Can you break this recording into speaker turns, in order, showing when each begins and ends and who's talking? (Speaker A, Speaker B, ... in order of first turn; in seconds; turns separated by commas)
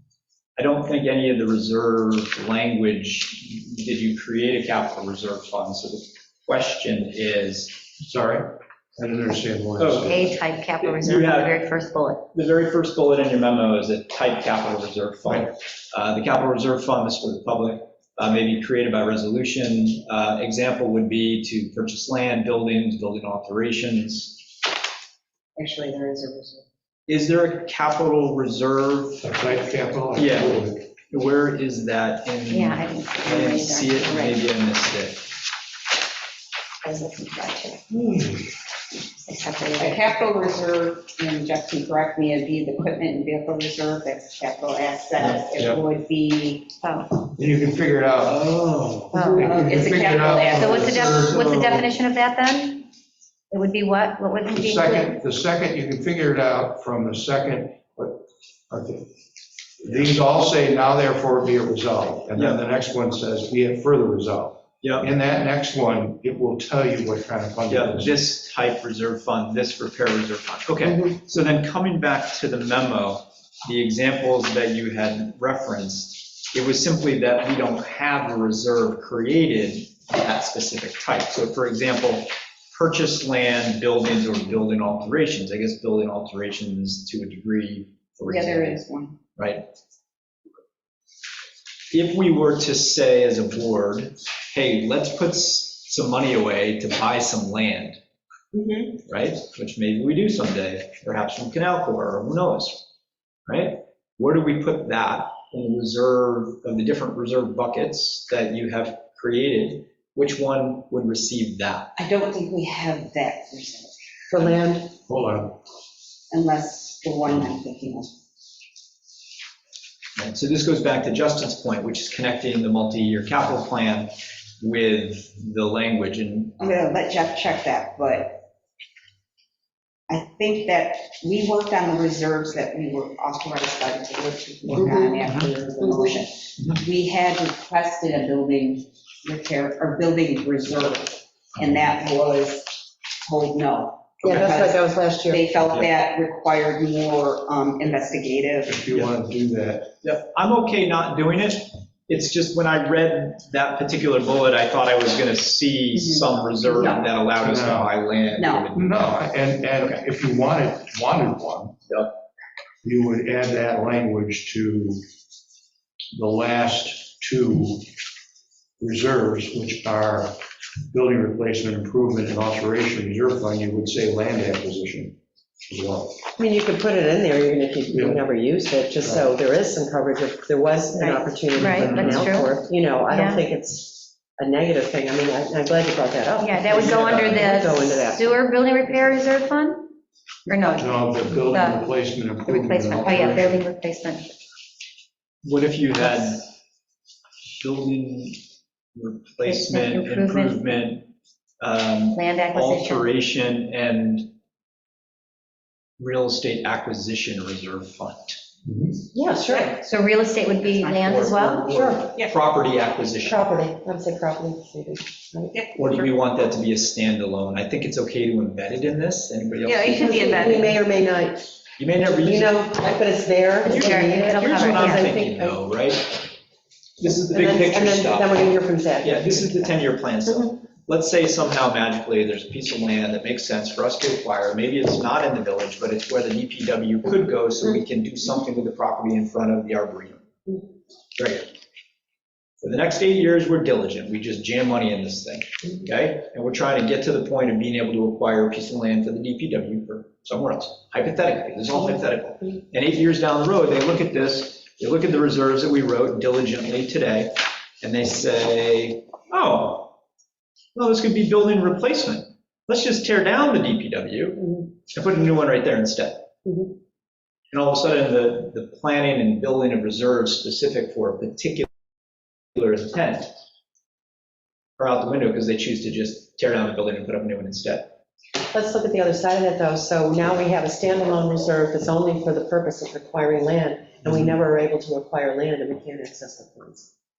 Speaker A: 0.6-7.8, Speaker B: 8.0-10.3, Speaker A: 9.8-11.7, Speaker C: 10.0-12.2, Speaker A: 12.3-24.5, Speaker D: 25.6-26.6, Speaker A: 27.1-29.3, Speaker B: 29.2-30.9, Speaker A: 30.1-30.6, Speaker A: 31.1-35.3, Speaker C: 32.5-34.5, Speaker C: 36.8-38.1, Speaker C: 39.1-40.1, Speaker D: 39.8-46.7, Speaker B: 45.6-45.8, Speaker C: 46.8-47.2, Speaker B: 47.3-48.5, Speaker A: 48.3-49.1, Speaker C: 49.1-49.5, Speaker D: 49.2-51.4, Speaker B: 49.4-51.5, Speaker C: 50.5-52.9, Speaker A: 51.5-51.8, Speaker C: 53.5-55.2, Speaker B: 54.5-59.1, Speaker B: 59.8-68.2, Speaker A: 62.4-62.6, Speaker A: 64.8-65.1, Speaker A: 67.7-88.8, Speaker D: 70.8-71.2, Speaker D: 88.3-89.2, Speaker A: 89.4-89.6, Speaker A: 91.9-98.0, Speaker D: 98.5-99.0, Speaker A: 99.1-102.9, Speaker A: 103.5-112.0, Speaker D: 112.0-113.9, Speaker E: 114.3-114.9, Speaker B: 115.1-115.6, Speaker D: 116.3-118.1, Speaker A: 120.2-126.7, Speaker D: 126.6-128.5, Speaker D: 130.1-148.8, Speaker E: 134.7-136.1, Speaker E: 144.2-145.5, Speaker B: 148.7-149.9, Speaker A: 150.0-159.1, Speaker D: 155.9-157.2, Speaker B: 157.4-157.9, Speaker D: 158.3-158.7, Speaker B: 158.7-161.7, Speaker A: 159.8-160.0, Speaker B: 162.8-165.0, Speaker B: 166.1-167.9, Speaker B: 168.8-170.4, Speaker B: 170.9-175.2, Speaker B: 175.7-176.2, Speaker E: 176.4-188.3, Speaker B: 177.9-178.2, Speaker B: 179.0-179.3, Speaker C: 180.9-182.6, Speaker B: 181.6-182.3, Speaker A: 181.8-182.2, Speaker C: 183.1-183.5, Speaker C: 186.4-189.9, Speaker A: 186.7-187.6, Speaker C: 190.5-191.9, Speaker B: 190.8-193.6, Speaker C: 192.4-194.3, Speaker A: 195.4-196.5, Speaker A: 197.6-198.4, Speaker A: 198.9-204.3, Speaker C: 199.4-200.8, Speaker C: 202.1-203.1, Speaker A: 206.0-208.4, Speaker B: 208.7-209.0, Speaker E: 209.1-209.8, Speaker D: 209.4-209.8, Speaker C: 209.8-211.7, Speaker D: 210.7-211.0, Speaker A: 210.9-213.5, Speaker D: 211.5-212.4, Speaker E: 211.7-212.1, Speaker E: 213.2-215.5, Speaker D: 215.5-216.1, Speaker A: 215.8-220.5, Speaker D: 219.6-220.8, Speaker E: 219.9-221.5, Speaker A: 221.8-222.7, Speaker E: 222.2-225.6, Speaker A: 223.7-226.2, Speaker C: 223.7-225.1, Speaker A: 227.0-228.5, Speaker E: 227.0-230.5, Speaker A: 229.0-240.2, Speaker A: 241.2-241.5, Speaker A: 242.6-259.9, Speaker A: 260.8-266.3, Speaker A: 267.5-271.7, Speaker A: 272.5-273.4, Speaker A: 274.8-277.9, Speaker E: 278.5-286.9